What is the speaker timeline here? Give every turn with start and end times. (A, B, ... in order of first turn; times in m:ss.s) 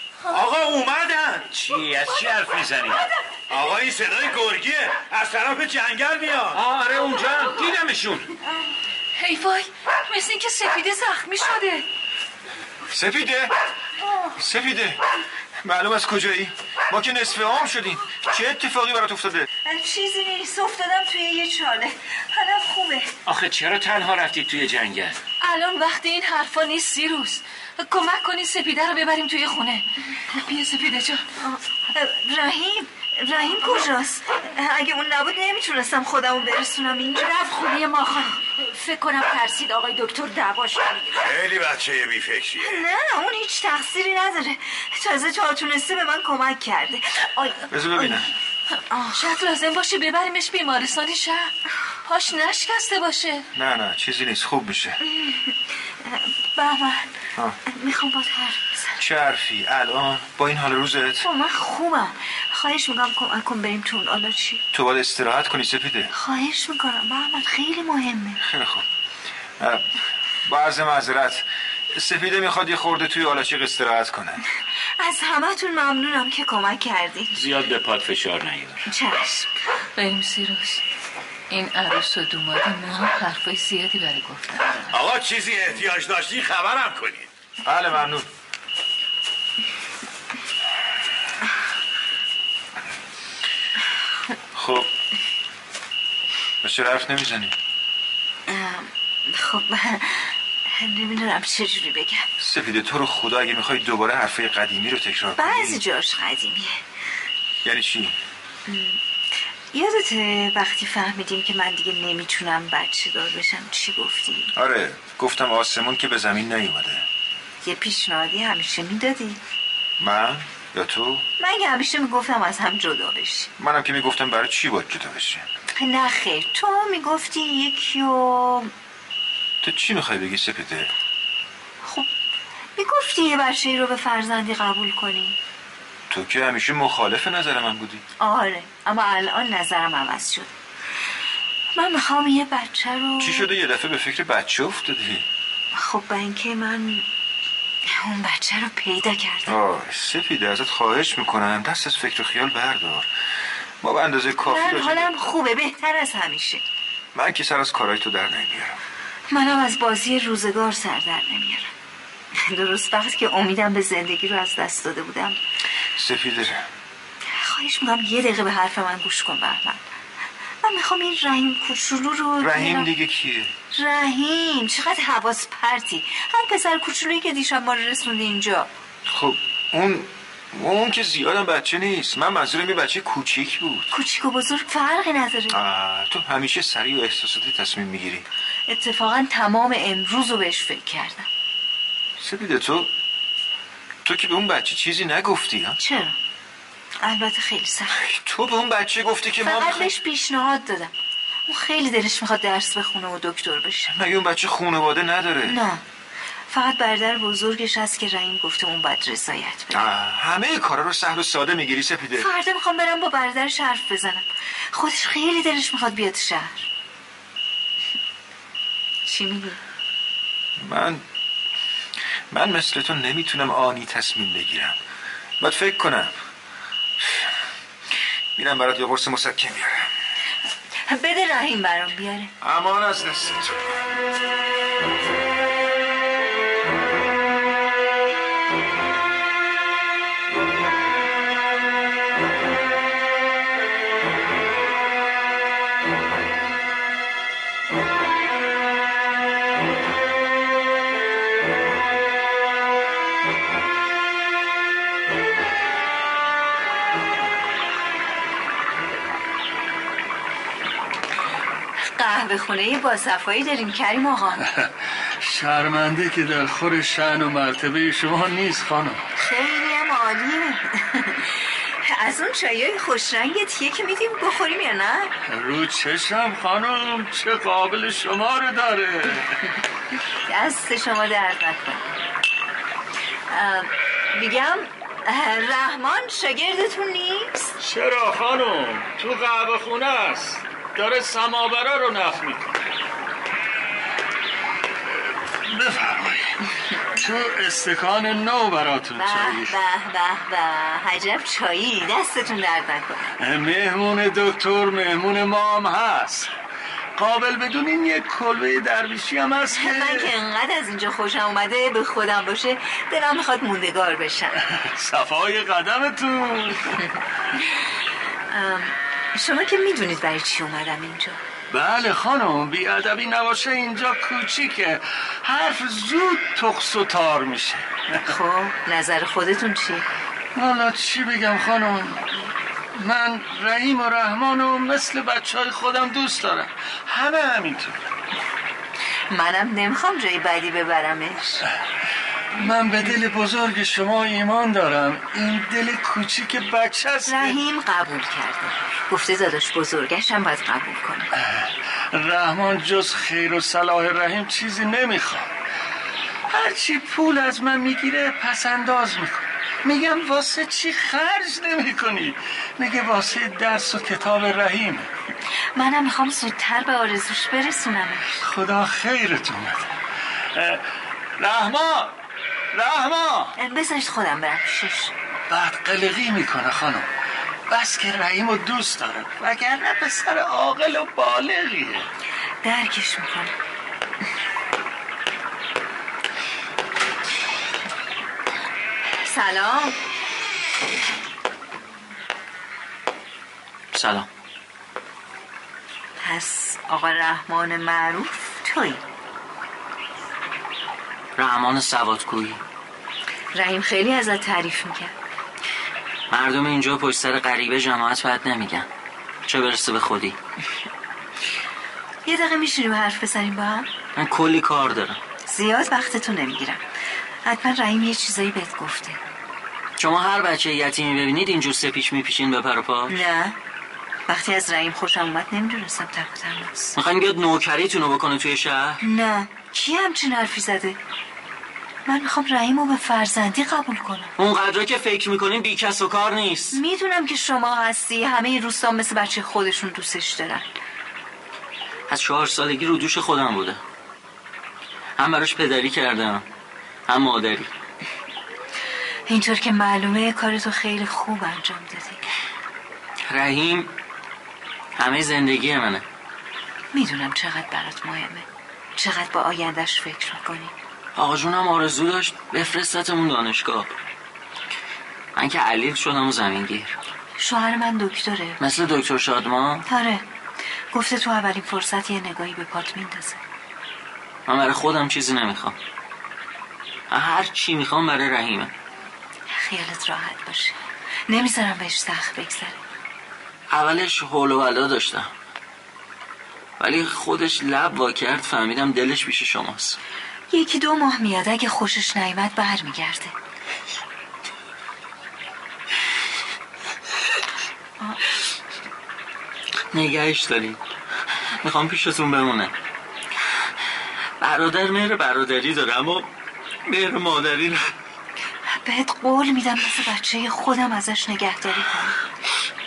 0:00.3-0:01.5 A
0:01.5-0:03.1 B
0:03.5-0:06.6 A
0:06.5-0:08.3 B
0:09.2-0:11.8 C
0:12.9-0:13.5 D
0:14.4-0:15.0 D
0:15.6-0:19.5 D
0:19.6-0:23.1 E
0:23.3-0:25.2 B
0:25.4-0:31.2 C
0:31.4-0:37.3 E
0:37.1-0:41.3 F
0:41.2-0:42.8 A
0:42.6-0:48.2 E
0:47.7-0:48.3 D
0:48.9-0:49.2 E
0:49.1-0:51.5 C
0:52.0-0:53.5 C
0:53.6-0:55.0 D
0:55.0-0:57.1 E
0:57.7-0:58.9 E
0:59.0-1:01.3 D
1:01.2-1:04.6 E
1:04.7-1:06.1 D
1:06.1-1:08.4 E
1:08.4-1:08.8 D
1:09.6-1:09.9 D
1:10.4-1:14.4 D
1:15.0-1:17.4 E
1:17.3-1:18.8 B
1:18.9-1:19.5 E
1:20.0-1:20.8 C
1:21.5-1:24.9 C
1:24.9-1:27.3 A
1:27.6-1:28.3 D
1:34.6-1:34.9 D
1:36.6-1:37.5 D
1:38.5-1:42.3 E
1:42.4-1:45.8 D
1:45.4-1:46.8 E
1:47.6-1:48.2 D
1:48.7-1:49.0 E
1:49.7-1:54.5 E
1:54.5-1:57.1 D
1:57.6-1:59.4 E
2:00.0-2:01.2 D
2:01.4-2:03.5 E
2:03.6-2:05.5 D
2:05.7-2:08.7 E
2:09.6-2:10.9 D
2:11.8-2:12.1 E
2:12.8-2:15.4 E
2:16.1-2:18.0 D
2:18.2-2:20.5 E
2:21.8-2:23.5 E
2:23.2-2:25.3 D
2:25.7-2:27.1 E
2:27.9-2:29.6 E
2:29.5-2:33.1 D
2:33.8-2:35.1 D
2:34.4-2:36.6 E
2:37.1-2:38.8 D
2:39.3-2:41.7 E
2:42.4-2:45.4 E
2:46.0-2:46.6 D
2:47.3-2:49.8 E
2:50.6-2:52.9 E
2:52.4-2:53.5 D
2:53.7-2:58.7 E
2:59.1-3:03.9 D
3:03.9-3:05.6 E
3:05.5-3:08.3 D
3:08.7-3:11.3 E
3:12.2-3:12.9 D
3:14.0-3:15.8 D
3:15.8-3:16.2 E
3:17.0-3:18.0 E
3:17.9-3:19.9 D
3:19.4-3:20.9 E
3:21.5-3:23.9 E
3:23.9-3:25.6 D
3:25.5-3:25.8 E
3:26.5-3:29.8 E
3:29.7-3:32.3 D
3:32.2-3:36.7 E
3:39.1-3:39.6 E
3:40.6-3:41.0 D
3:42.3-3:44.8 D
3:45.4-3:46.1 D
3:48.4-3:49.9 D
3:50.9-3:52.3 E
3:52.4-3:53.6 D
4:21.9-4:24.4 E
4:24.5-4:29.0 G
4:29.2-4:35.1 E
4:35.3-4:39.3 G
4:40.3-4:41.8 E
4:43.3-4:47.5 E
4:47.6-4:52.6 G
4:55.4-4:56.4 G
4:57.0-4:59.5 G
4:59.0-5:03.0 E
5:03.2-5:06.3 G
5:07.0-5:10.1 G
5:09.5-5:14.4 E
5:14.5-5:16.8 G
5:18.3-5:21.2 E
5:21.5-5:28.0 G
5:28.0-5:29.9 E
5:30.4-5:37.8 G
5:39.1-5:41.4 E
5:42.3-5:47.4 G
5:47.1-5:51.1 E
5:51.2-5:55.3 G
5:56.3-6:04.9 G
6:05.6-6:08.1 E
6:08.2-6:09.7 G
6:10.3-6:10.6 G
6:11.2-6:11.9 G
6:12.5-6:13.3 G
6:13.4-6:14.9 E
6:15.3-6:16.9 G
6:17.5-6:21.9 G
6:22.4-6:23.4 E
6:29.0-6:29.8 E
6:33.7-6:34.1 H
6:36.0-6:38.8 E
6:41.2-6:42.4 H
6:43.4-6:44.9 E
6:46.1-6:48.7 H
6:49.3-6:50.2 H
6:52.0-6:53.7 E
6:54.0-6:55.0 H
6:55.3-6:56.6 E
6:57.2-6:59.0 E
6:59.8-7:02.9 H
7:02.9-7:03.4 E
7:04.1-7:06.7 E
7:06.8-7:08.8 H
7:08.8-7:10.8 E
7:11.9-7:14.1 E
7:14.2-7:16.6 H
7:16.5-7:20.5 E
7:21.9-7:23.6 H
7:25.0-7:26.2 H
7:26.9-7:27.5 H
7:29.1-7:32.0 E
7:33.1-7:33.7 H
7:34.8-7:35.8 H
7:36.7-7:38.2 E
7:38.8-7:40.5 E
7:41.0-7:43.7 H
7:45.2-7:46.8 H
7:47.2-7:48.4 E
7:48.4-7:49.7 H
7:49.7-7:50.0 E
7:50.7-7:53.2 E
7:54.3-7:55.6 H
7:56.9-7:58.5 H
7:59.3-8:00.6 E
8:01.1-8:02.6 E
8:03.5-8:05.1 H
8:06.6-8:09.8 H
8:10.3-8:13.1 E
8:19.7-8:20.6 H
8:21.4-8:22.5 H
8:24.2-8:26.1 H
8:26.7-8:27.7 H
8:28.5-8:32.0 E